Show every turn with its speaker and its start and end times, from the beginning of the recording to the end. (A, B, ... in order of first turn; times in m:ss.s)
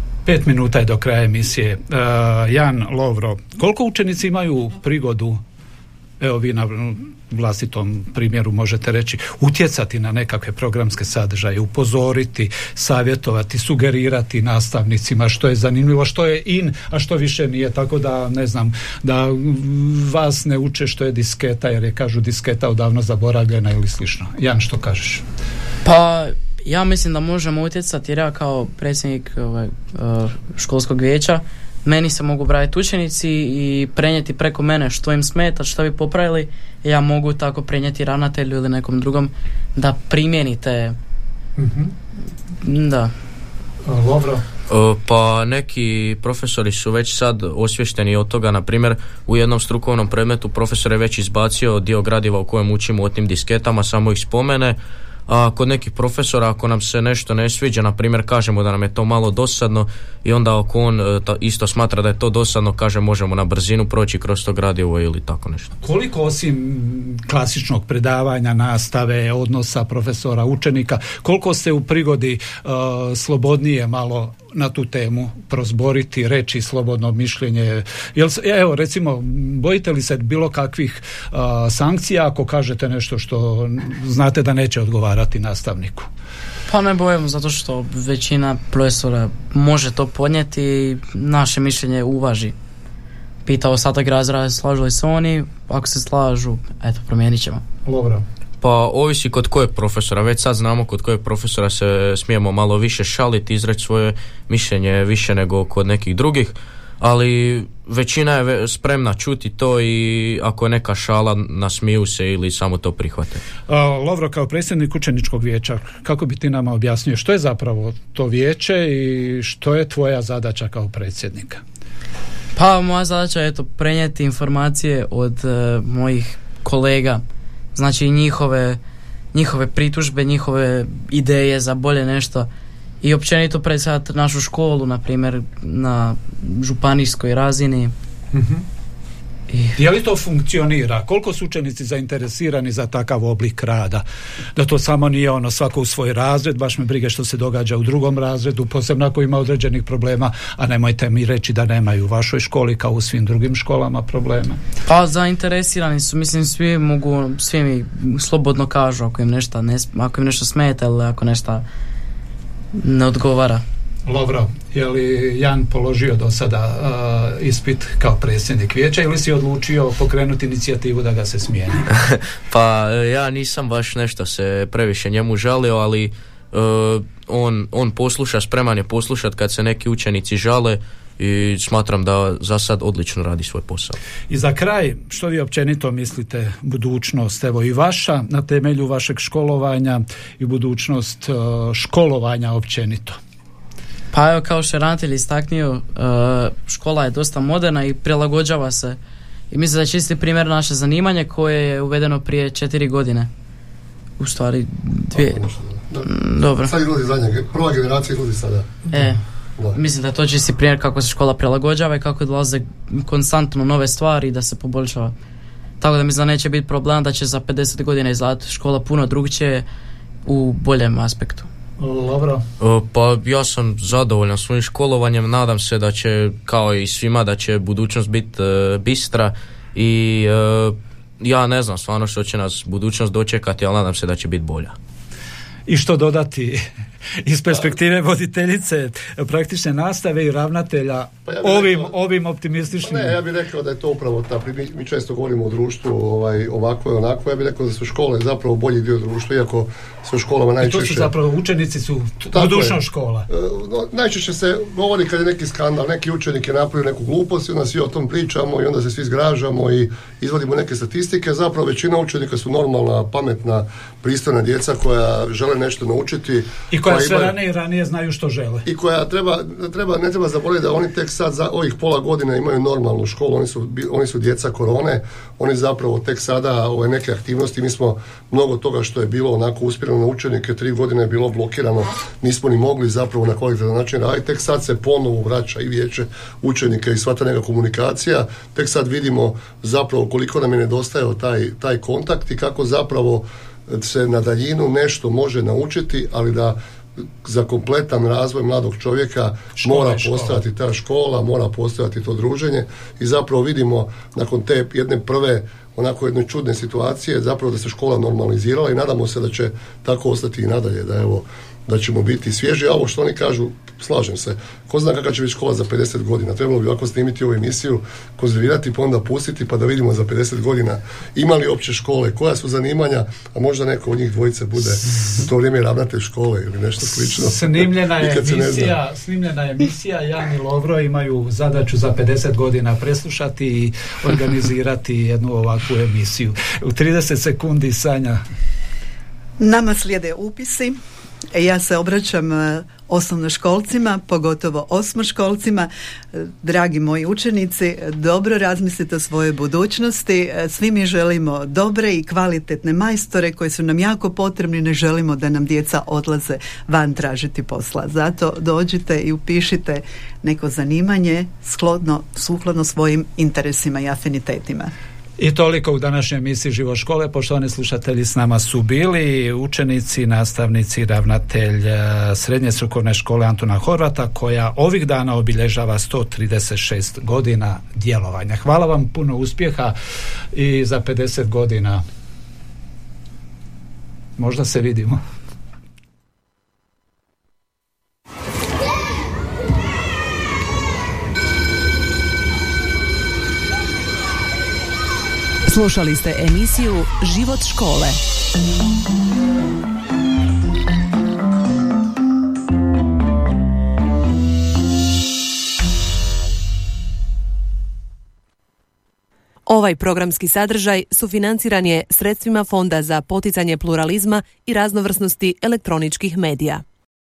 0:00.2-0:05.4 A
0:06.2-0:25.2 A
0:25.8-0:41.0 B
0:41.6-0:41.9 A
0:42.6-0:43.1 B
0:43.8-0:44.4 A
0:44.7-1:05.7 C
1:05.8-1:26.1 A
1:26.7-1:32.5 B
1:33.4-1:37.6 B
1:37.8-1:38.2 A
1:38.6-1:53.4 C
1:53.7-2:01.6 A
2:02.5-2:07.2 B
2:07.7-2:08.8 B
2:09.3-2:12.5 B
2:13.0-2:17.9 B
2:18.3-2:18.6 A
2:19.5-2:19.8 B
2:19.7-2:24.0 A
2:24.6-2:34.6 A
2:34.8-2:41.6 B
2:42.7-2:43.6 B
2:44.0-2:51.8 A
2:51.9-3:04.0 C
3:04.3-3:13.2 A
3:14.1-3:19.0 B
3:19.5-3:23.3 B
3:24.2-3:25.4 B
3:25.1-3:28.8 D
3:26.0-3:26.7 B
3:28.9-3:29.2 B
3:29.7-3:35.1 B
3:35.8-3:39.6 B
3:40.2-3:41.5 B
3:41.8-3:42.4 A
3:42.6-3:54.7 C
3:55.7-3:56.6 A
3:57.2-4:03.1 A
4:01.2-4:01.9 D
4:02.8-4:11.1 D
4:10.6-4:13.3 A
4:12.3-4:27.3 D
4:26.7-4:28.6 A
4:28.6-4:56.6 D
4:57.2-5:28.8 D
4:59.6-5:00.4 A
5:27.0-5:38.2 A
5:39.4-5:40.8 E
5:41.3-6:04.7 E
6:05.2-6:19.7 A
6:20.3-6:21.8 A
6:24.2-6:25.0 A
6:35.4-6:38.0 F
6:49.4-6:56.6 F